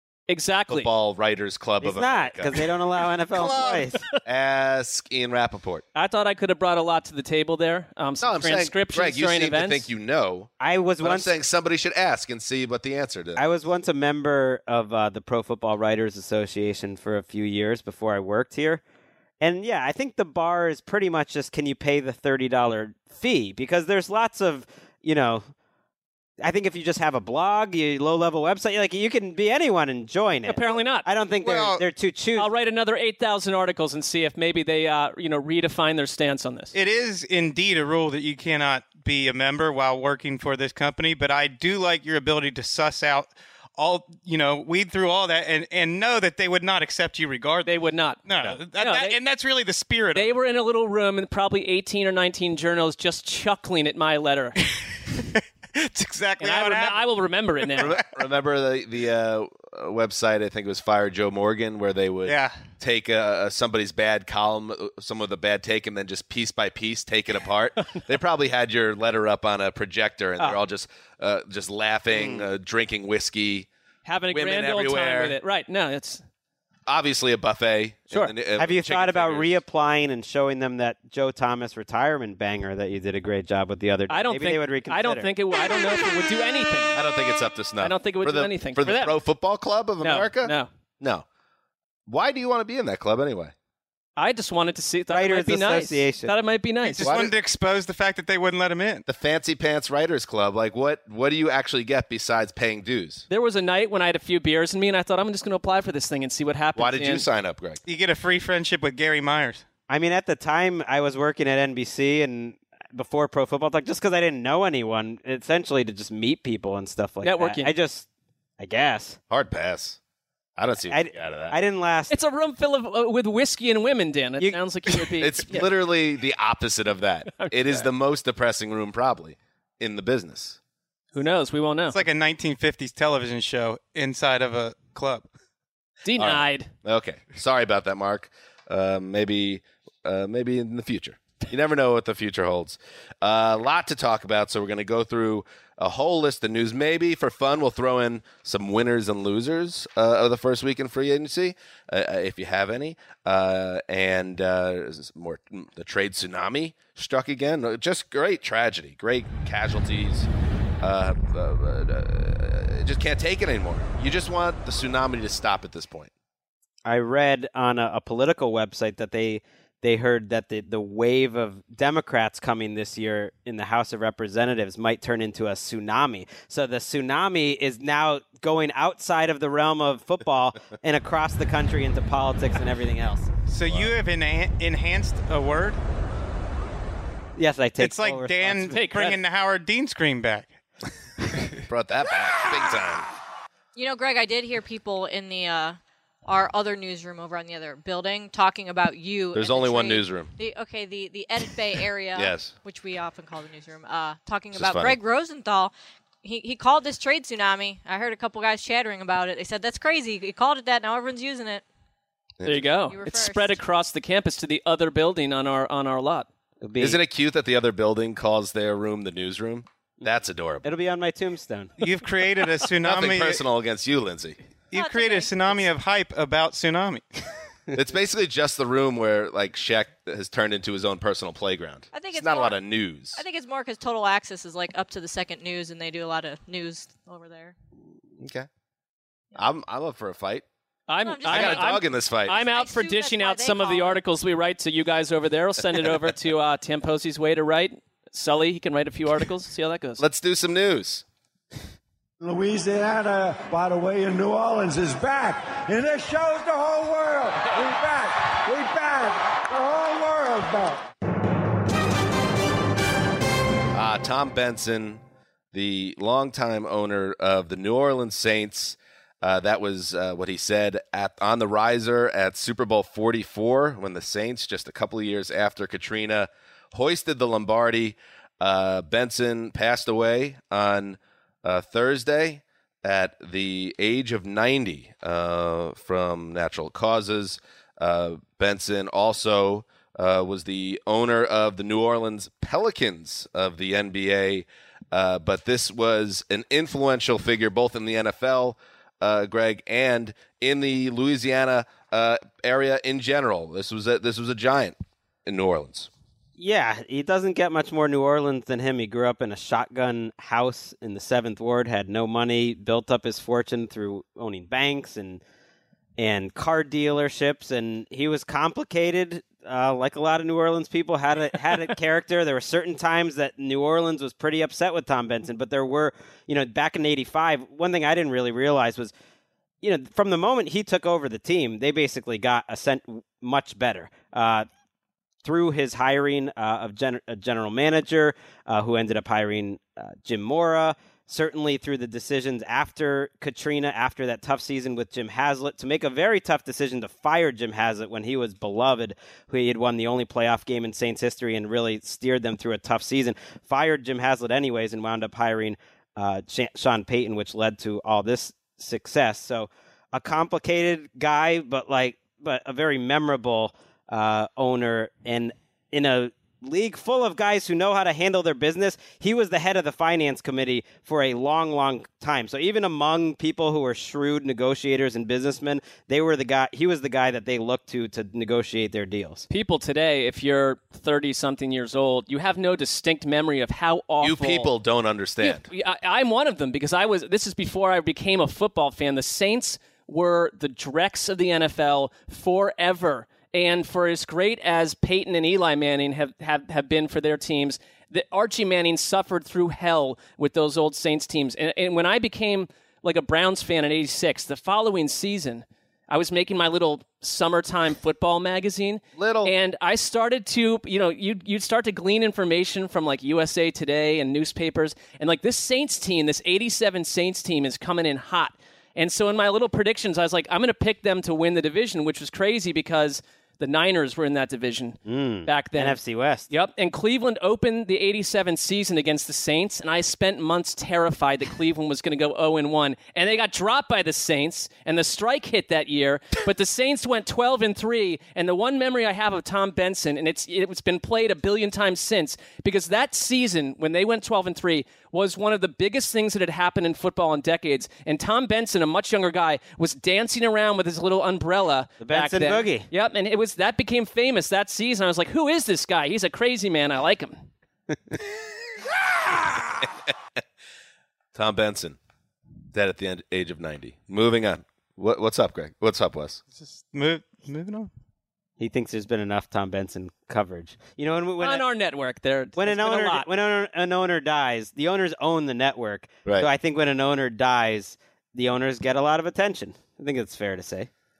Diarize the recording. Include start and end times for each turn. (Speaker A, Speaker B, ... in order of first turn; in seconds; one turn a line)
Speaker A: 0.3-0.9
Speaker B: 0.7-2.6
Speaker C: 1.8-4.0
Speaker D: 3.4-3.9
Speaker B: 4.3-5.8
Speaker A: 6.0-9.9
Speaker B: 8.2-13.4
Speaker C: 10.6-11.3
Speaker C: 13.4-18.8
Speaker C: 19.4-25.4
Speaker C: 26.4-32.5
Speaker A: 30.5-31.1
Speaker D: 31.4-31.8
Speaker A: 32.4-36.7
Speaker D: 36.7-47.7
Speaker A: 47.6-48.2
Speaker D: 48.3-50.3
Speaker A: 48.8-49.2
Speaker A: 50.1-54.6
Speaker D: 55.3-57.0
Speaker A: 56.4-58.0
Speaker B: 57.8-73.7
Speaker D: 62.3-62.5
Speaker C: 72.2-72.5
Speaker A: 74.0-76.2
Speaker B: 74.3-75.4
Speaker B: 76.9-79.5
Speaker C: 78.1-85.3
Speaker A: 84.1-87.0
Speaker B: 86.9-91.3
Speaker A: 87.8-89.2
Speaker A: 90.0-90.7
Speaker B: 92.1-93.5
Speaker A: 94.2-97.1
Speaker C: 95.1-96.3
Speaker D: 96.8-99.0
Speaker B: 97.0-97.3
Speaker B: 99.1-103.3
Speaker A: 103.3-107.2
Speaker B: 106.8-107.8
Speaker D: 107.9-109.7
Speaker C: 109.9-118.1
Speaker A: 117.2-117.7
Speaker C: 118.6-119.2
Speaker B: 119.3-120.0
Speaker B: 120.6-121.6
Speaker C: 120.9-122.2
Speaker A: 122.1-125.7
Speaker B: 125.2-130.6
Speaker A: 127.4-127.9
Speaker A: 131.1-132.0
Speaker D: 131.9-135.3
Speaker A: 136.1-136.7
Speaker B: 136.2-160.3
Speaker B: 160.8-166.1
Speaker C: 166.8-183.3
Speaker D: 183.5-185.8
Speaker B: 183.7-183.9
Speaker C: 187.4-189.2
Speaker D: 187.8-190.5
Speaker A: 188.7-189.1
Speaker B: 191.7-193.1
Speaker E: 193.8-211.6
Speaker B: 199.3-200.3
Speaker B: 202.2-202.5
Speaker B: 204.5-205.0
Speaker A: 212.4-216.3
Speaker E: 212.9-213.6
Speaker C: 216.6-217.0
Speaker B: 216.8-220.7
Speaker C: 220.6-221.7
Speaker D: 221.8-223.4
Speaker B: 222.8-224.4
Speaker D: 224.7-227.3
Speaker E: 224.7-225.7
Speaker B: 227.8-233.2
Speaker E: 231.9-232.6
Speaker E: 233.2-237.5
Speaker B: 238.2-238.5
Speaker B: 239.3-240.4
Speaker A: 240.9-250.0
Speaker E: 241.1-244.0
Speaker B: 241.3-242.4
Speaker B: 250.0-251.1
Speaker F: 252.2-260.8
Speaker B: 263.7-265.0
Speaker B: 265.5-305.9
Speaker C: 306.4-315.2
Speaker C: 316.0-328.9
Speaker C: 329.6-334.5
Speaker C: 335.2-379.3
Speaker A: 379.3-384.5
Speaker B: 384.0-385.5
Speaker A: 385.2-425.8
Speaker B: 409.0-409.3
Speaker C: 424.9-426.3
Speaker A: 426.3-457.3
Speaker C: 451.8-452.7
Speaker B: 461.1-461.8
Speaker B: 462.5-466.2
Speaker D: 466.4-467.7
Speaker C: 468.4-471.4
Speaker A: 471.2-473.1
Speaker C: 472.4-480.7